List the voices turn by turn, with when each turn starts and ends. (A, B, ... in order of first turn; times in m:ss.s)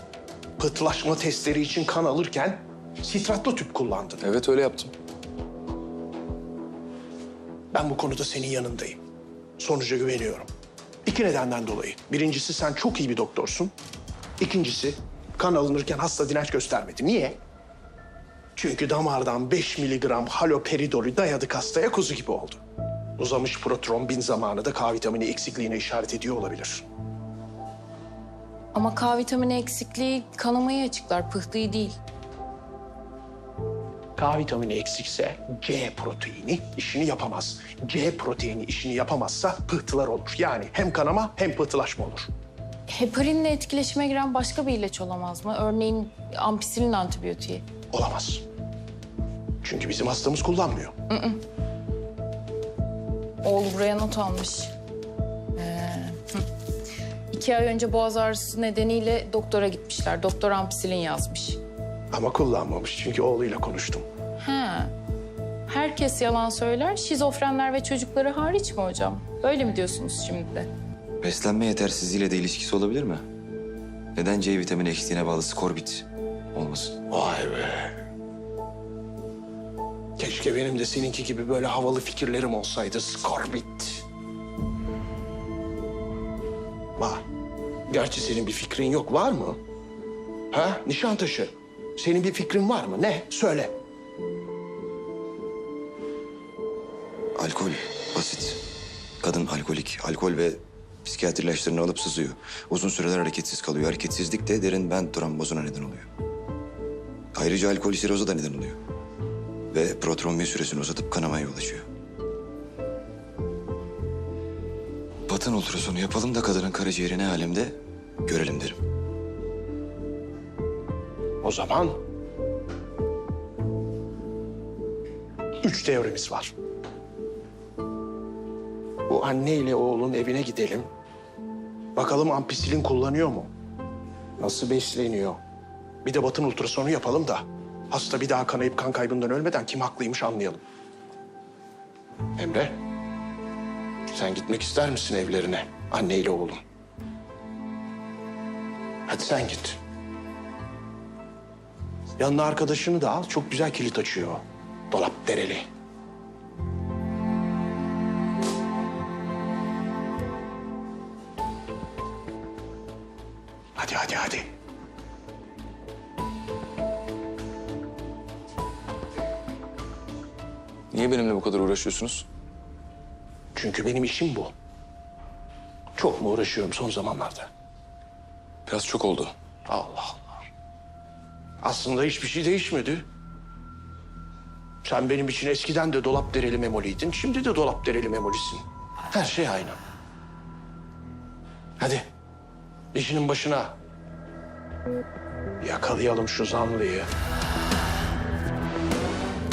0:00.6-0:04.3 A
0:04.2-0:04.9 B
0:07.7-0:09.0 A
0:09.6-0:10.5 A
0:11.0-0:13.7 A
0:14.4-0:17.4 A
0:18.6-0:22.6 A
0:23.2-0:26.8 A
0:28.7-0:32.0 C
0:34.2-0:42.3 A
0:42.9-0:47.6 C
0:47.9-0:48.4 A
0:49.6-0:50.9 A
0:51.1-0:51.4 C
0:53.4-0:54.7 C
0:55.6-0:56.4 C
0:57.3-1:01.6 C
1:02.1-1:04.0 A
1:04.4-1:04.9 C
1:05.7-1:10.7 C
1:11.2-1:13.2 D
1:14.1-1:17.0 D
1:17.1-1:18.0 A
1:20.2-1:24.0 A
1:27.0-1:27.2 A
1:27.9-1:29.6 A
1:30.5-1:33.8 A
1:37.4-1:38.6 D
1:39.2-1:46.1 D
1:47.3-1:48.8 D
1:49.7-1:51.8 D
1:55.3-1:58.8 D
2:01.4-2:02.0 A
2:05.6-2:06.5 A
2:09.1-2:10.9 A
2:12.0-2:13.5 A
2:14.4-2:15.4 A
2:16.0-2:20.6 A
2:22.4-2:22.8 A
2:24.1-2:26.6 A
2:29.1-2:29.8 A
2:32.2-2:35.6 A
2:43.8-2:44.5 A
2:50.9-2:52.2 B
2:53.5-2:54.5 A
2:56.0-2:57.5 A
2:58.7-2:59.3 B
2:59.7-3:00.4 A
3:01.6-3:03.0 A
3:04.8-3:09.8 A
3:11.8-3:12.0 A
3:12.9-3:13.8 A
3:15.6-3:17.1 A